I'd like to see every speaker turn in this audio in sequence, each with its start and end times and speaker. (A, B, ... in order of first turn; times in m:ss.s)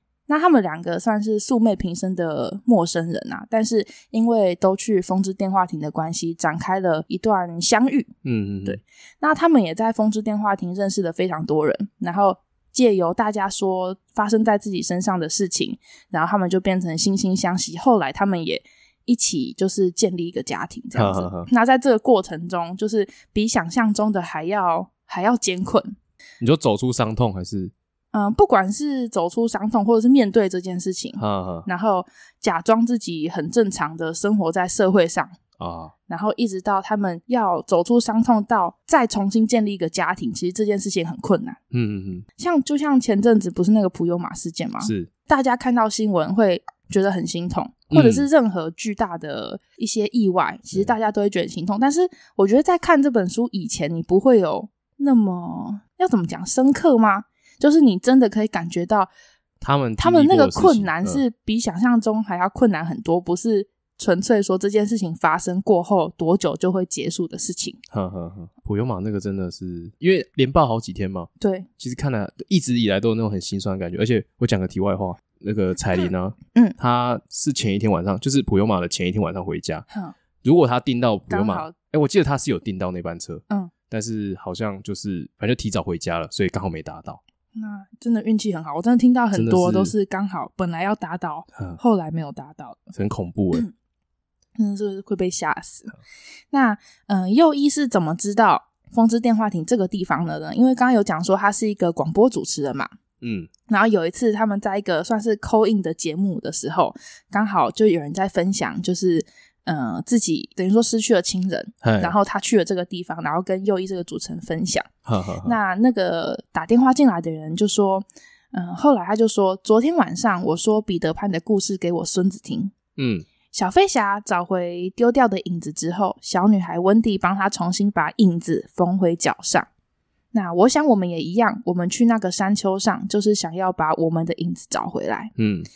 0:00.3-0:08.1 A
0:08.2-0:08.8 B
0:08.6-0:25.9 A
0:20.9-0:21.5 B
0:26.4-0:27.7 B
0:28.1-0:35.3 A
0:31.2-0:31.7 B
0:35.6-0:35.9 B
0:36.1-0:41.6 A
0:41.7-0:42.2 B
0:42.4-0:59.1 A
0:44.8-0:45.1 B
0:47.9-0:48.2 B
0:59.6-1:01.2 B
1:00.0-1:07.8 A
1:07.9-1:19.8 B
1:11.4-1:11.7 A
1:19.9-1:20.1 A
1:20.4-1:27.2 B
1:21.3-1:21.7 A
1:27.5-1:32.9 A
1:29.3-1:29.9 B
1:32.9-1:33.6 B
1:34.6-1:35.9 A
1:36.5-1:42.9 A
1:43.2-1:43.5 B
1:43.7-1:54.9 A
1:51.8-1:52.1 B
1:55.0-1:55.6 B
1:55.4-2:02.7 A
2:03.0-2:03.2 B
2:03.5-2:09.7 A
2:10.3-2:15.3 A
2:15.4-2:15.7 B